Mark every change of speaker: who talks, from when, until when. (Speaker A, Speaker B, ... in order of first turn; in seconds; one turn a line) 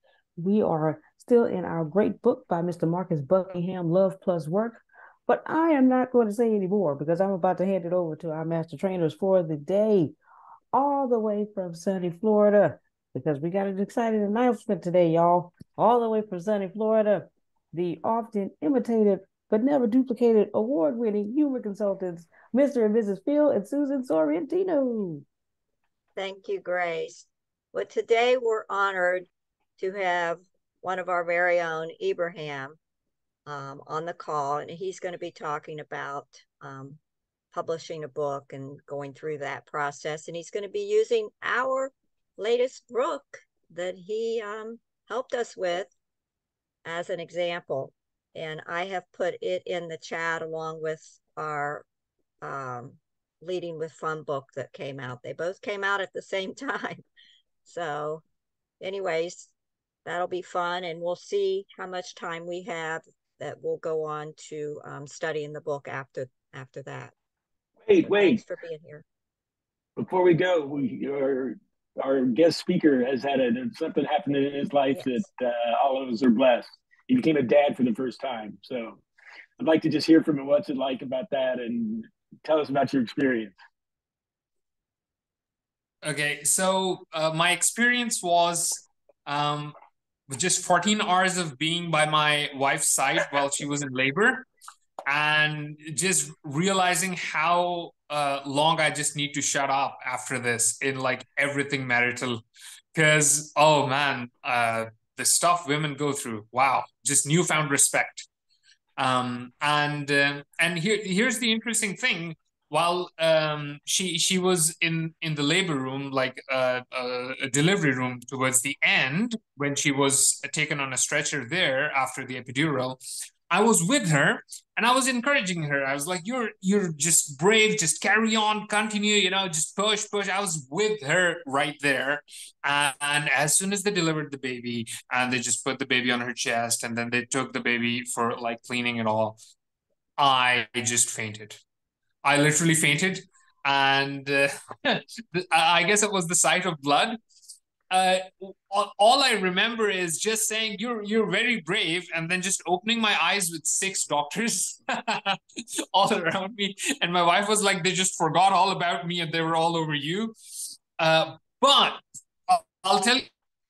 Speaker A: 0.4-10.1
Speaker A: 10.7-25.2
Speaker B: 26.1-29.3
Speaker B: 29.8-32.8
Speaker B: 33.5-37.0
Speaker B: 37.5-45.9
Speaker B: 46.8-51.8
Speaker B: 52.4-57.0
Speaker B: 57.6-58.2
Speaker B: 58.8-59.5
Speaker B: 60.0-67.1
Speaker C: 67.8-68.4
Speaker B: 68.0-69.0
Speaker C: 70.0-79.0
Speaker B: 74.9-75.2
Speaker C: 79.6-83.5
Speaker D: 86.0-89.7
Speaker D: 90.3-94.5
Speaker D: 95.0-108.3
Speaker D: 109.0-139.4
Speaker D: 140.2-141.6
Speaker D: 142.2-147.2
Speaker D: 147.9-160.3
Speaker D: 161.0-163.3